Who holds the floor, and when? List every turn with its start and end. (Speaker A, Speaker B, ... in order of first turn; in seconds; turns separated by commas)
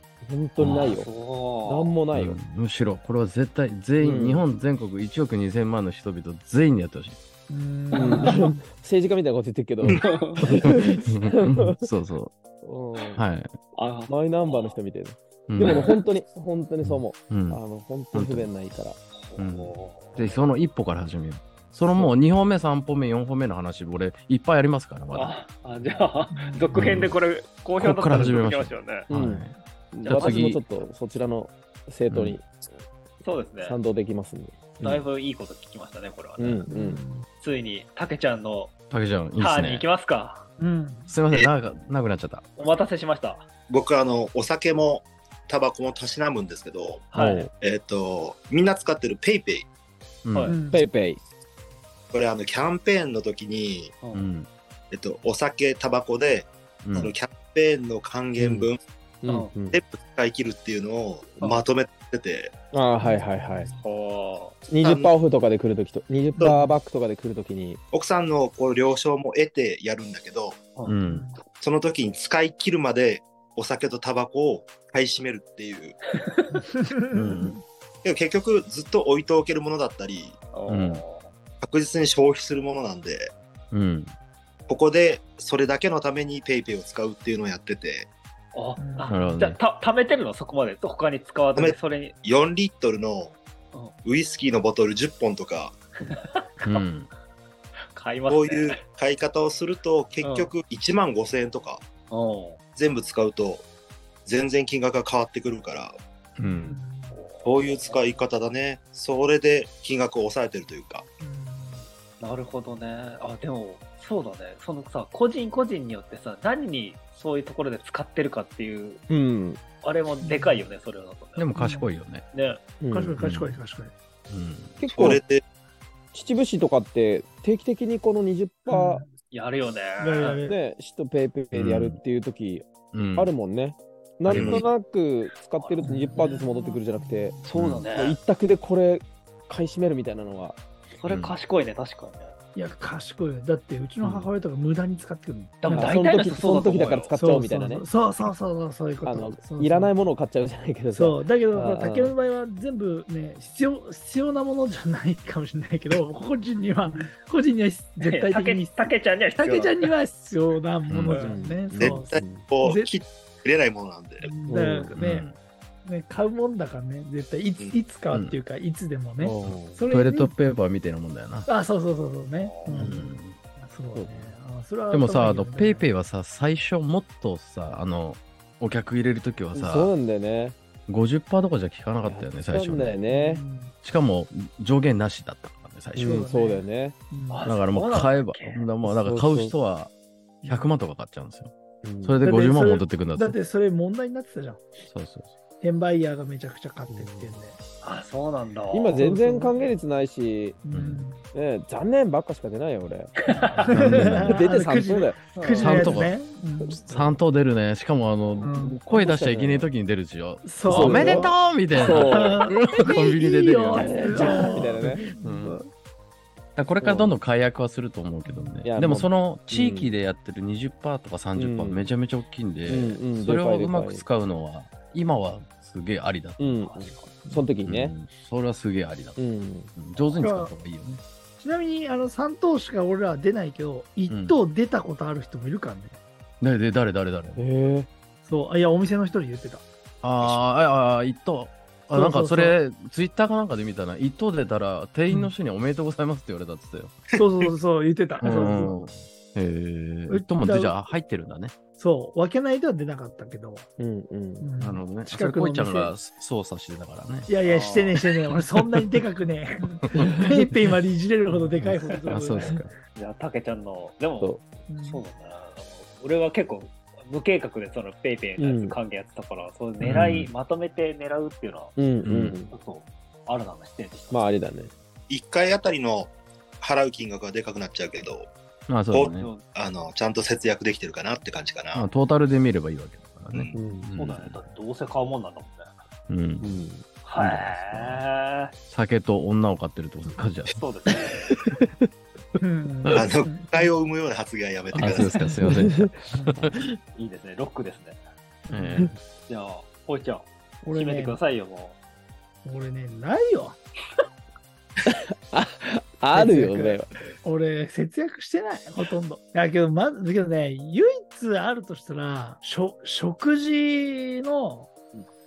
Speaker A: 0.2-1.1, Speaker B: 0.6-2.0, Speaker A: 1.7-2.4, Speaker C: 2.1-7.2, Speaker A: 4.0-4.5, Speaker D: 7.5-8.6, Speaker A: 7.9-11.9, Speaker C: 9.8-12.3, Speaker B: 10.0-10.4, Speaker A: 12.6-13.2, Speaker C: 13.2-13.6, Speaker B: 13.8-14.8, Speaker A: 14.1-19.0, Speaker C: 15.5-15.9, Speaker B: 15.6-16.0, Speaker C: 16.8-17.6, Speaker C: 18.1-18.5, Speaker B: 19.1-20.4, Speaker C: 19.4-25.4, Speaker B: 25.1-29.1, Speaker D: 26.3-26.8, Speaker C: 26.7-27.1, Speaker C: 27.8-29.5, Speaker A: 29.1-32.5, Speaker B: 30.0-30.4, Speaker C: 30.1-30.6, Speaker C: 32.1-32.4, Speaker B: 33.2-33.8, Speaker A: 33.6-35.0, Speaker B: 34.8-36.7, Speaker A: 36.4-37.0, Speaker D: 36.7-37.3, Speaker B: 37.4-38.7, Speaker C: 38.9-39.9, Speaker B: 39.4-40.5, Speaker D: 40.6-41.1, Speaker C: 41.1-42.5, Speaker B: 42.6-43.5, Speaker E: 43.7-47.1, Speaker B: 47.1-47.5, Speaker A: 47.1-47.5, Speaker E: 47.6-49.7, Speaker C: 50.2-50.5, Speaker D: 50.5-50.8, Speaker A: 50.7-51.2, Speaker E: 52.1-54.0, Speaker C: 54.1-54.5, Speaker E: 54.9-58.8, Speaker C: 56.8-57.1, Speaker A: 58.4-58.7, Speaker A: 59.2-59.8, Speaker B: 59.3-59.5, Speaker E: 59.7-62.5, Speaker A: 62.7-63.7, Speaker D: 63.0-63.8, Speaker B: 63.8-64.6, Speaker A: 64.7-67.8, Speaker E: 64.8-65.1, Speaker D: 66.4-66.8, Speaker E: 67.9-70.6, Speaker C: 70.9-71.3, Speaker D: 71.0-71.4, Speaker E: 71.6-76.0, Speaker B: 76.3-76.6, Speaker D: 76.7-77.6, Speaker C: 77.1-77.6, Speaker E: 78.0-80.4, Speaker B: 80.5-81.3, Speaker C: 80.7-81.0, Speaker E: 81.6-83.3, Speaker C: 83.7-84.1, Speaker E: 84.7-88.1, Speaker B: 88.5-92.2, Speaker D: 88.8-89.3, Speaker C: 89.1-89.6, Speaker E: 91.6-93.4, Speaker E: 94.0-95.8, Speaker B: 96.1-96.8, Speaker C: 96.7-97.1, Speaker B: 98.0-98.8, Speaker E: 98.3-101.8, Speaker B: 100.2-100.5, Speaker B: 102.1-102.6, Speaker E: 102.8-103.7, Speaker E: 104.3-106.0, Speaker C: 106.4-106.8, Speaker D: 106.4-107.2, Speaker B: 107.1-108.2, Speaker E: 107.4-111.0, Speaker D: 111.2-111.9, Speaker B: 112.2-119.0, Speaker A: 119.1-119.6, Speaker B: 119.8-121.5, Speaker D: 120.2-120.7, Speaker C: 121.4-122.2, Speaker D: 121.5-121.9, Speaker B: 122.3-122.6, Speaker A: 122.8-123.2, Speaker D: 122.9-123.9, Speaker C: 123.2-123.6, Speaker C: 124.3-124.8, Speaker A: 124.8-125.2, Speaker E: 124.9-125.4, Speaker A: 126.1-129.1, Speaker D: 128.7-129.1, Speaker B: 129.3-130.5, Speaker D: 130.0-130.6, Speaker A: 130.5-137.4, Speaker C: 131.5-132.0, Speaker C: 132.9-133.3, Speaker C: 134.3-134.7, Speaker E: 134.3-134.6, Speaker B: 135.5-136.2, Speaker D: 135.8-137.5, Speaker B: 137.4-138.2, Speaker C: 137.6-137.9, Speaker A: 137.9-140.6, Speaker B: 141.0-142.3, Speaker C: 141.1-141.4, Speaker D: 142.6-146.0, Speaker A: 144.0-144.3, Speaker B: 145.6-147.1, Speaker A: 145.7-147.9, Speaker D: 147.1-149.9, Speaker A: 149.1-152.2, Speaker D: 150.9-162.9, Speaker B: 158.0-159.9, Speaker C: 160.9-161.2, Speaker A: 161.2-162.5, Speaker E: 161.8-164.3, Speaker D: 164.2-165.3, Speaker A: 164.5-164.9, Speaker C: 165.0-165.4, Speaker D: 165.8-170.3, Speaker C: 168.1-168.4, Speaker A: 169.2-169.8, Speaker C: 169.4-171.5, Speaker D: 171.5-175.9, Speaker B: 172.4-172.9, Speaker C: 172.7-173.4, Speaker A: 173.9-174.4, Speaker C: 174.9-179.9, Speaker A: 179.5-180.6, Speaker C: 180.9-183.0, Speaker A: 182.0-183.4, Speaker D: 183.1-183.7, Speaker C: 183.8-186.3, Speaker A: 186.0-187.0, Speaker D: 186.0-187.5, Speaker B: 187.3-188.7, Speaker C: 187.4-189.9, Speaker A: 188.8-189.6, Speaker C: 190.4-193.4, Speaker A: 191.8-192.2, Speaker D: 192.2-194.6, Speaker C: 194.8-195.3, Speaker D: 195.6-197.6, Speaker A: 196.9-197.4, Speaker B: 197.8-199.1, Speaker A: 198.7-200.6, Speaker D: 199.0-199.6, Speaker D: 200.6-201.2, Speaker C: 200.7-201.1, Speaker A: 201.3-203.1, Speaker B: 203.2-203.7, Speaker D: 203.6-207.1, Speaker C: 203.7-204.4, Speaker A: 203.7-205.2, Speaker B: 205.3-206.0, Speaker C: 205.4-206.2, Speaker C: 206.8-214.5, Speaker D: 208.4-208.8, Speaker A: 208.9-209.7, Speaker D: 210.4-215.6, Speaker A: 210.7-212.4, Speaker B: 212.1-212.5, Speaker A: 213.7-215.2, Speaker C: 215.2-215.6, Speaker C: 216.6-226.5, Speaker A: 216.8-217.2, Speaker D: 218.3-218.7, Speaker A: 218.7-219.9, Speaker A: 221.3-221.9, Speaker A: 222.7-224.0, Speaker A: 226.4-227.9, Speaker B: 226.5-227.2, Speaker C: 227.7-229.2, Speaker A: 229.2-229.7, Speaker C: 229.8-231.0, Speaker D: 230.2-230.5, Speaker D: 231.4-236.0, Speaker C: 234.1-234.4, Speaker C: 236.4-237.4, Speaker A: 237.4-237.9, Speaker D: 238.2-239.7, Speaker C: 240.0-247.0, Speaker D: 241.9-242.6, Speaker D: 247.1-248.7, Speaker C: 248.2-251.6, Speaker A: 248.4-248.7, Speaker D: 250.1-250.8, Speaker D: 251.8-253.7, Speaker A: 253.8-254.5, Speaker D: 254.4-255.9, Speaker C: 254.6-257.3, Speaker D: 257.3-262.6, Speaker B: 257.4-258.0, Speaker C: 259.9-260.2, Speaker C: 262.1-262.7, Speaker B: 262.9-271.8, Speaker D: 264.7-265.0, Speaker A: 268.4-268.8, Speaker C: 269.8-270.3, Speaker A: 271.8-272.5, Speaker C: 272.1-272.4, Speaker B: 272.5-274.3, Speaker A: 274.1-274.7, Speaker E: 275.1-278.3, Speaker C: 278.7-279.3, Speaker E: 278.9-281.9, Speaker B: 279.1-279.4, Speaker C: 281.7-284.4, Speaker A: 283.5-283.9, Speaker B: 283.9-285.7, Speaker C: 286.1-286.6, Speaker A: 286.4-286.9, Speaker B: 287.0-288.5, Speaker C: 287.2-288.0, Speaker C: 288.7-290.6, Speaker B: 290.5-291.2, Speaker D: 292.4-293.7, Speaker E: 292.9-295.3, Speaker C: 294.8-296.6, Speaker A: 295.4-296.6, Speaker B: 296.9-298.0, Speaker D: 298.5-298.9, Speaker C: 298.5-298.9, Speaker B: 299.3-301.8, Speaker D: 300.6-301.2, Speaker D: 302.4-303.6, Speaker A: 304.9-306.9, Speaker D: 306.1-314.7